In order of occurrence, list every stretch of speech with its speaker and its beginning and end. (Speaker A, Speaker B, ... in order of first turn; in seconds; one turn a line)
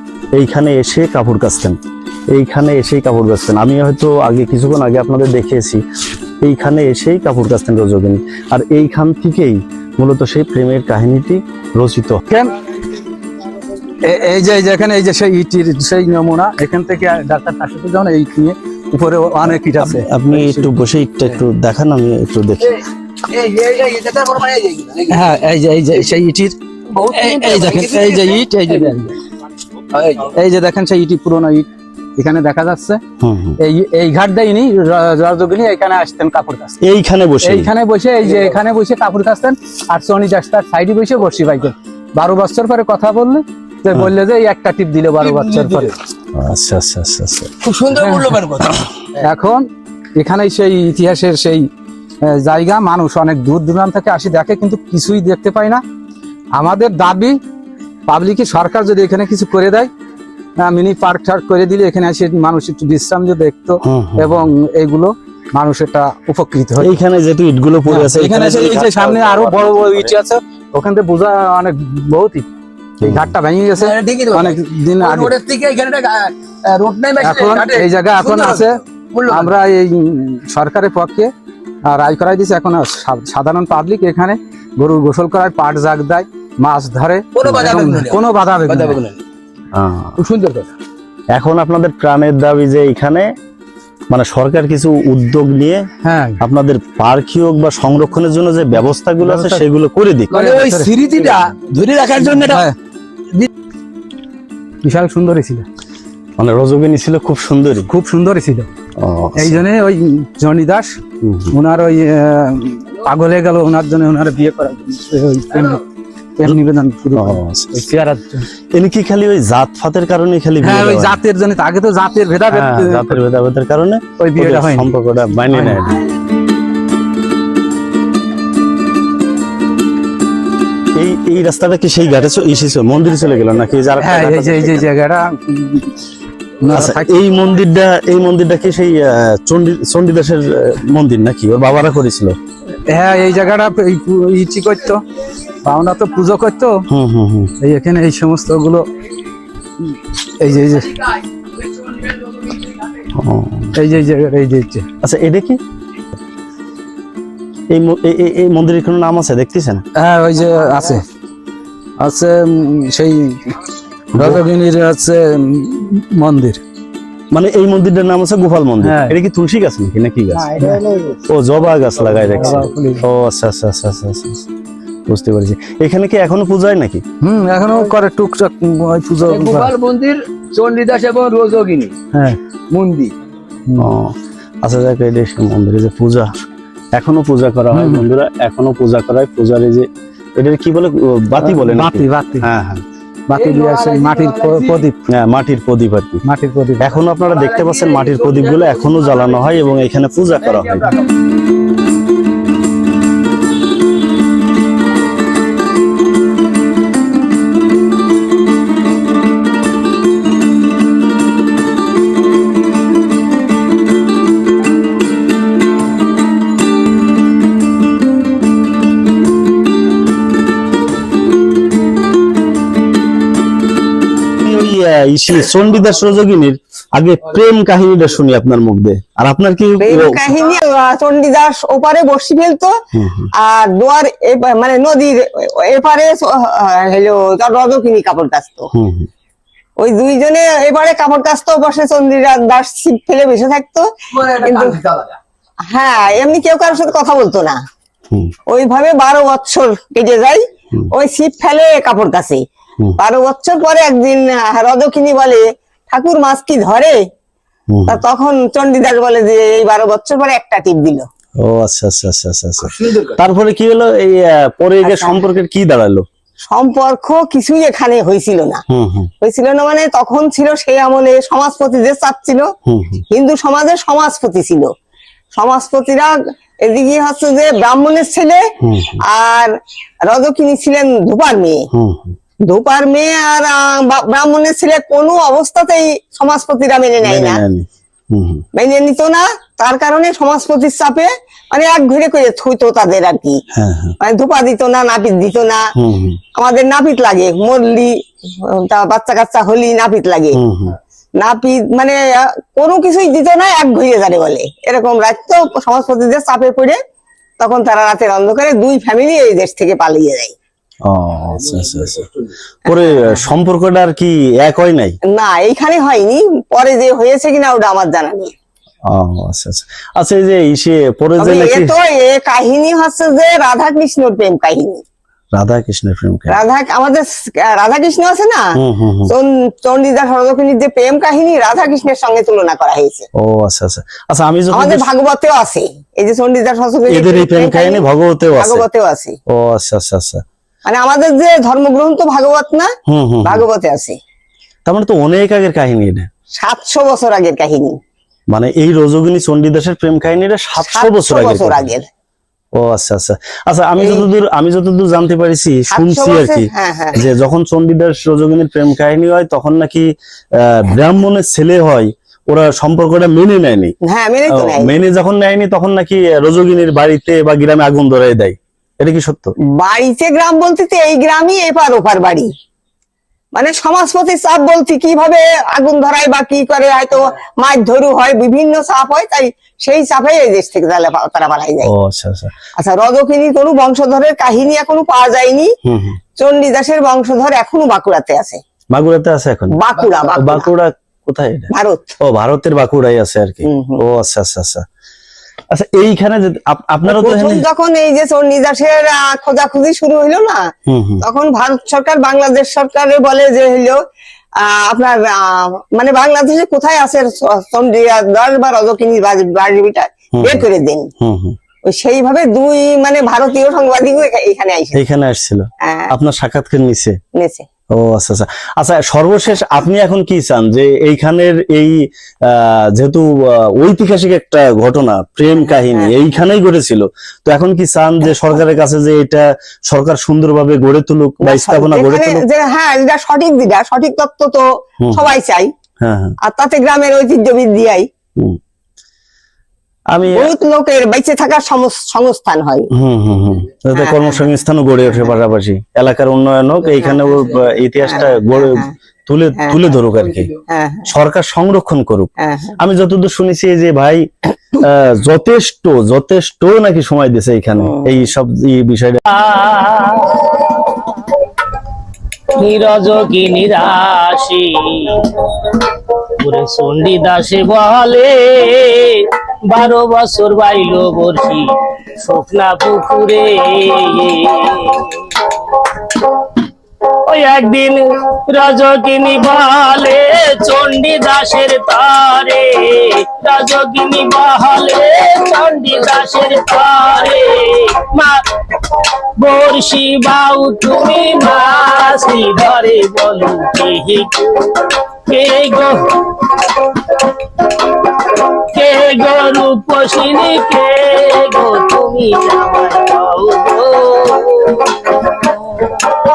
Speaker A: 0.3-1.8
Speaker A: 2.3-5.8
Speaker A: 6.4-12.2
Speaker B: 12.3-12.5
Speaker B: 14.0-20.7
Speaker A: 19.4-22.8
Speaker C: 22.6-25.4
Speaker B: 25.1-29.2
Speaker C: 27.0-28.4
Speaker C: 29.9-30.3
Speaker B: 30.2-33.0
Speaker A: 33.2-33.6
Speaker B: 33.6-36.8
Speaker A: 36.8-37.7
Speaker B: 37.4-45.9
Speaker C: 45.2-45.9
Speaker A: 46.4-47.5
Speaker C: 47.6-49.0
Speaker B: 48.0-48.3
Speaker B: 49.2-49.7
Speaker B: 50.2-51.7
Speaker B: 52.2-55.8
Speaker B: 56.6-57.4
Speaker B: 58.1-59.9
Speaker B: 60.6-67.0
Speaker A: 63.8-64.5
Speaker A: 66.8-70.1
Speaker B: 67.9-72.5
Speaker A: 73.0-73.3
Speaker B: 73.0-75.3
Speaker C: 73.7-79.5
Speaker B: 77.2-81.3
Speaker B: 81.9-89.0
Speaker C: 87.3-89.2
Speaker A: 89.7-90.1
Speaker C: 90.2-90.7
Speaker A: 91.3-93.3
Speaker A: 94.1-95.8
Speaker B: 96.0-96.4
Speaker A: 96.4-100.3
Speaker B: 99.2-99.6
Speaker C: 100.3-102.7
Speaker B: 100.3-101.3
Speaker B: 102.3-102.8
Speaker B: 104.8-105.7
Speaker A: 106.4-107.9
Speaker B: 107.9-108.7
Speaker A: 109.0-109.7
Speaker B: 109.4-111.0
Speaker A: 111.2-111.5
Speaker B: 111.5-115.8
Speaker B: 116.4-118.5
Speaker A: 117.1-117.7
Speaker A: 118.7-121.2
Speaker B: 120.6-123.2
Speaker A: 122.5-126.0
Speaker B: 124.2-124.9
Speaker B: 125.5-125.9
Speaker A: 130.9-134.9
Speaker B: 134.0-136.0
Speaker B: 136.6-137.3
Speaker A: 136.7-142.3
Speaker B: 142.9-145.0
Speaker B: 145.6-146.9
Speaker A: 146.9-147.5
Speaker B: 147.6-148.9
Speaker B: 149.8-151.2
Speaker A: 153.2-153.8
Speaker B: 153.8-154.9
Speaker A: 155.0-155.6
Speaker A: 157.7-159.8
Speaker B: 160.0-161.0
Speaker B: 162.0-163.5
Speaker A: 164.2-164.4
Speaker B: 164.2-166.6
Speaker A: 167.3-170.7
Speaker B: 168.8-169.2
Speaker B: 170.4-170.8
Speaker A: 171.3-174.4
Speaker B: 172.3-173.0
Speaker A: 175.1-177.0
Speaker B: 177.2-179.7
Speaker C: 179.2-182.0
Speaker B: 182.1-182.4
Speaker C: 182.7-183.1
Speaker A: 183.8-186.3
Speaker A: 187.0-192.8
Speaker B: 187.7-188.0
Speaker B: 191.4-192.5
Speaker B: 193.3-195.0
Speaker C: 193.3-194.9
Speaker A: 195.1-196.2
Speaker B: 196.2-196.9
Speaker A: 196.8-200.8
Speaker C: 197.2-199.8
Speaker C: 200.4-201.1
Speaker A: 224.4-230.3
Speaker D: 229.8-232.7
Speaker A: 232.9-233.3
Speaker D: 233.4-238.7
Speaker A: 238.7-239.1
Speaker D: 239.8-244.8
Speaker C: 244.2-245.2
Speaker D: 245.7-247.6
Speaker D: 248.5-252.4
Speaker D: 253.0-257.0
Speaker A: 257.7-258.0
Speaker D: 257.9-261.1
Speaker A: 261.4-266.1
Speaker C: 262.8-263.2
Speaker D: 264.8-265.2
Speaker D: 266.5-268.6
Speaker A: 268.7-269.1
Speaker D: 269.2-272.4
Speaker A: 272.7-273.0
Speaker D: 273.1-274.7
Speaker D: 275.3-276.1
Speaker D: 276.6-278.4
Speaker A: 278.6-279.0
Speaker D: 279.1-279.5
Speaker D: 280.1-281.6
Speaker A: 281.7-282.2
Speaker D: 282.5-287.4
Speaker A: 287.0-288.4
Speaker D: 288.6-293.4
Speaker A: 293.5-294.0
Speaker D: 294.0-295.6
Speaker A: 295.8-296.2
Speaker D: 296.4-297.9
Speaker D: 298.5-300.4
Speaker A: 300.4-300.8
Speaker D: 301.2-306.8
Speaker D: 307.4-310.3
Speaker A: 310.9-312.1
Speaker A: 312.7-315.0
Speaker D: 312.7-313.3
Speaker D: 315.1-318.3
Speaker A: 318.9-321.7
Speaker D: 321.2-324.8
Speaker A: 325.3-326.4
Speaker D: 326.3-328.4
Speaker A: 328.6-329.1
Speaker D: 329.1-333.1
Speaker A: 333.1-334.9
Speaker D: 334.5-339.2
Speaker A: 336.9-338.6
Speaker A: 339.3-340.2
Speaker D: 340.7-342.7
Speaker A: 342.9-343.5
Speaker D: 343.3-344.0
Speaker A: 344.7-346.1
Speaker D: 346.4-347.8
Speaker A: 348.3-351.7
Speaker D: 350.7-351.9
Speaker A: 352.6-363.8
Speaker D: 353.8-354.1
Speaker D: 355.7-357.1
Speaker D: 363.9-364.7
Speaker A: 364.3-369.3
Speaker D: 369.6-372.3
Speaker D: 373.4-381.7
Speaker A: 381.6-382.3
Speaker D: 382.6-385.5
Speaker A: 385.6-386.0
Speaker D: 386.2-388.4
Speaker A: 388.7-391.5
Speaker D: 389.6-390.5
Speaker D: 391.5-391.9
Speaker A: 392.0-394.6
Speaker D: 393.5-393.8
Speaker A: 395.5-397.4
Speaker D: 396.9-400.4
Speaker A: 400.7-401.0
Speaker D: 401.0-403.8
Speaker D: 404.4-410.9
Speaker A: 410.2-410.4
Speaker A: 411.0-411.4
Speaker D: 411.7-414.8
Speaker A: 414.8-417.0
Speaker D: 415.6-415.9
Speaker D: 417.2-417.5
Speaker A: 417.7-432.2
Speaker D: 425.4-425.9
Speaker D: 431.2-435.5
Speaker A: 434.8-435.1
Speaker A: 435.8-436.2
Speaker D: 436.3-437.9
Speaker A: 439.9-440.3
Speaker D: 440.1-442.7
Speaker A: 442.7-450.3
Speaker D: 443.8-444.3
Speaker D: 444.9-445.1
Speaker D: 446.8-447.2
Speaker D: 447.8-448.7
Speaker D: 449.4-449.8
Speaker D: 450.5-450.9
Speaker A: 450.9-459.0
Speaker D: 452.2-452.6
Speaker D: 457.6-457.9
Speaker E: 459.1-461.1
Speaker E: 462.4-471.5
Speaker E: 472.0-476.4
Speaker E: 477.1-505.8